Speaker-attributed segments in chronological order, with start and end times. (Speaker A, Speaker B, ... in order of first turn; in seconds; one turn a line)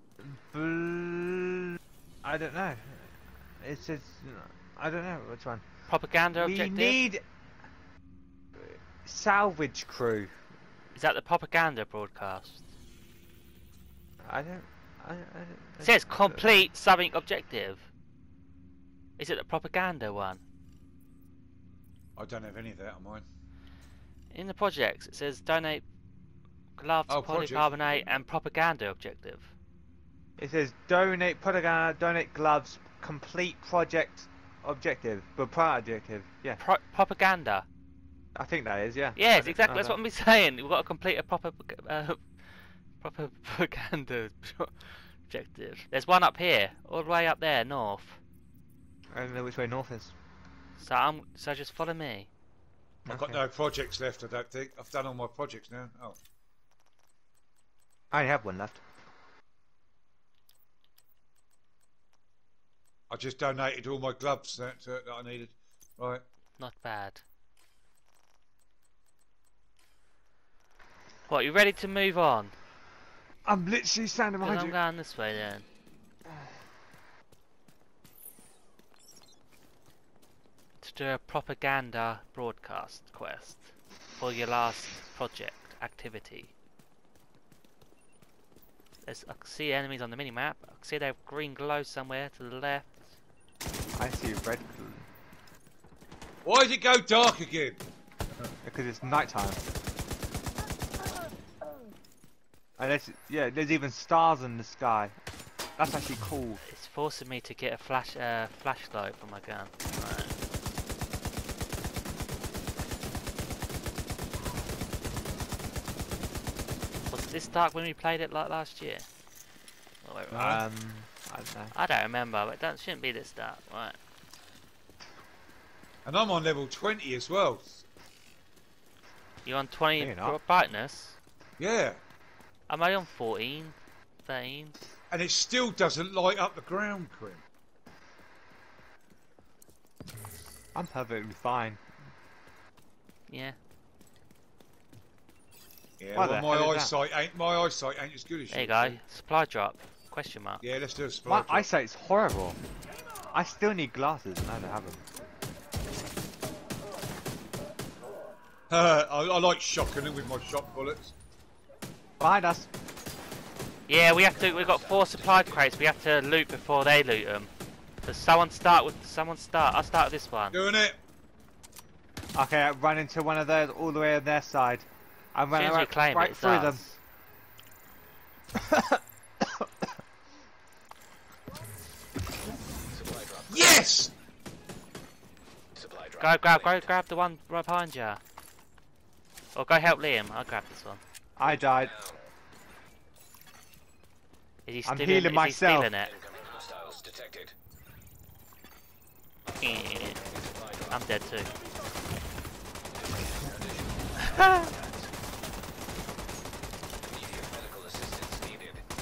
Speaker A: 0.2-5.7
Speaker B: 5.9-7.0
Speaker A: 6.4-7.2
Speaker A: 8.6-10.4
Speaker B: 10.9-12.7
Speaker A: 14.2-16.5
Speaker B: 15.8-17.9
Speaker B: 19.2-20.4
Speaker C: 22.2-23.2
Speaker B: 24.3-25.9
Speaker B: 26.8-29.5
Speaker C: 27.1-28.2
Speaker A: 30.4-36.6
Speaker B: 36.6-37.7
Speaker A: 38.4-40.0
Speaker B: 39.2-48.2
Speaker A: 49.1-50.1
Speaker B: 50.8-52.3
Speaker A: 53.1-53.4
Speaker C: 53.1-56.2
Speaker A: 58.1-58.8
Speaker C: 63.1-66.2
Speaker B: 66.6-67.2
Speaker B: 71.3-72.5
Speaker A: 73.5-74.8
Speaker B: 74.4-75.7
Speaker B: 80.8-86.5
Speaker B: 89.0-93.1
Speaker A: 94.0-95.1
Speaker C: 96.4-97.8
Speaker A: 98.6-99.6
Speaker A: 102.8-105.2
Speaker A: 105.8-106.6
Speaker B: 106.7-110.3
Speaker B: 117.1-119.1
Speaker B: 120.0-120.6
Speaker A: 120.3-121.7
Speaker B: 121.7-124.0
Speaker C: 126.0-127.8
Speaker B: 129.4-131.2
Speaker A: 130.0-130.4
Speaker C: 131.6-132.0
Speaker B: 132.7-134.8
Speaker C: 135.1-137.4
Speaker A: 140.8-141.8
Speaker B: 143.3-143.6
Speaker C: 146.0-149.0
Speaker A: 146.2-146.9
Speaker B: 148.5-150.6
Speaker C: 150.6-151.7
Speaker A: 151.3-152.6
Speaker A: 153.3-155.1
Speaker C: 158.7-161.2
Speaker A: 162.2-162.7
Speaker B: 163.9-167.5
Speaker D: 164.2-165.7
Speaker B: 168.0-170.6
Speaker C: 170.5-171.0
Speaker A: 172.3-176.8
Speaker B: 175.5-177.0
Speaker A: 178.6-179.9
Speaker D: 182.9-183.9
Speaker C: 183.5-184.1
Speaker D: 185.8-186.9
Speaker B: 186.2-188.2
Speaker B: 189.6-191.0
Speaker A: 191.4-191.9
Speaker D: 191.4-192.3
Speaker B: 194.7-196.2
Speaker A: 194.8-195.9
Speaker D: 196.0-197.5
Speaker D: 199.5-201.1
Speaker B: 199.6-200.2
Speaker B: 200.9-201.5
Speaker D: 202.9-205.1
Speaker A: 204.4-204.7
Speaker D: 207.0-208.8